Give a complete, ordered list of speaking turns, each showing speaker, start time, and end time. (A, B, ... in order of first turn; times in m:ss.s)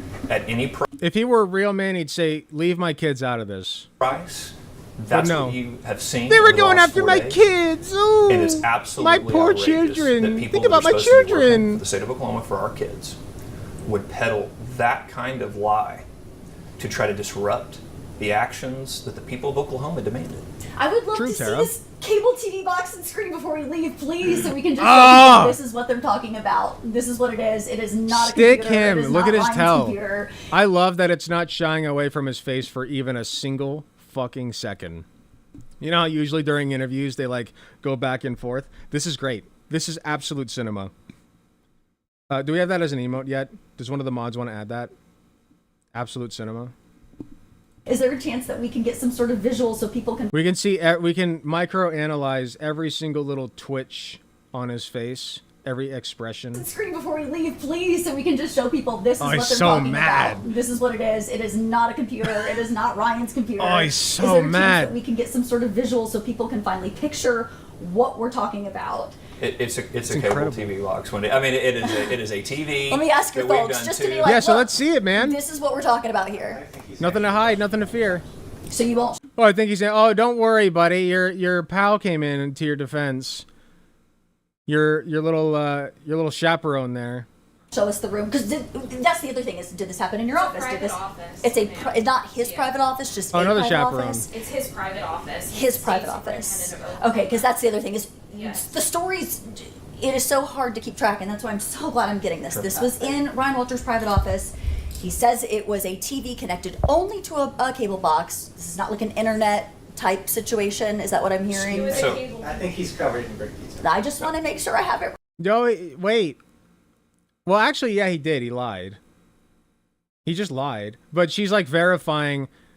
0:00.3-0:00.9 A
0:01.0-0:03.9 B
0:04.0-0:07.4 A
0:05.1-0:05.6 B
0:06.3-0:11.8 B
0:08.3-0:13.2 A
0:13.8-0:16.0 A
0:16.8-0:20.5 A
0:20.8-0:30.4 C
0:21.1-0:21.7 B
0:24.8-0:25.6 B
0:28.1-0:30.0 B
0:30.5-0:35.1 B
0:35.8-0:40.9 B
0:42.3-0:44.9 B
0:45.9-0:46.7 B
0:47.9-0:50.3 C
0:50.3-0:56.7 B
0:56.6-1:09.2 C
0:59.2-1:00.5 B
1:03.6-1:04.9 B
1:09.4-1:14.4 A
1:10.1-1:10.7 B
1:12.9-1:14.6 C
1:14.2-1:15.4 B
1:15.1-1:16.6 C
1:16.2-1:17.6 D
1:17.0-1:18.2 B
1:18.7-1:19.2 C
1:19.4-1:23.5 B
1:24.7-1:27.3 B
1:27.7-1:34.4 C
1:30.3-1:32.8 E
1:33.3-1:34.3 B
1:34.3-1:37.6 E
1:35.5-1:52.6 C
1:38.3-1:38.7 E
1:42.5-1:43.2 A
1:51.6-1:52.4 E
1:51.8-1:53.8 D
1:51.8-1:52.2 A
1:53.8-1:55.2 C
1:55.4-1:56.4 B
1:57.5-1:59.0 B
2:00.3-2:02.5 B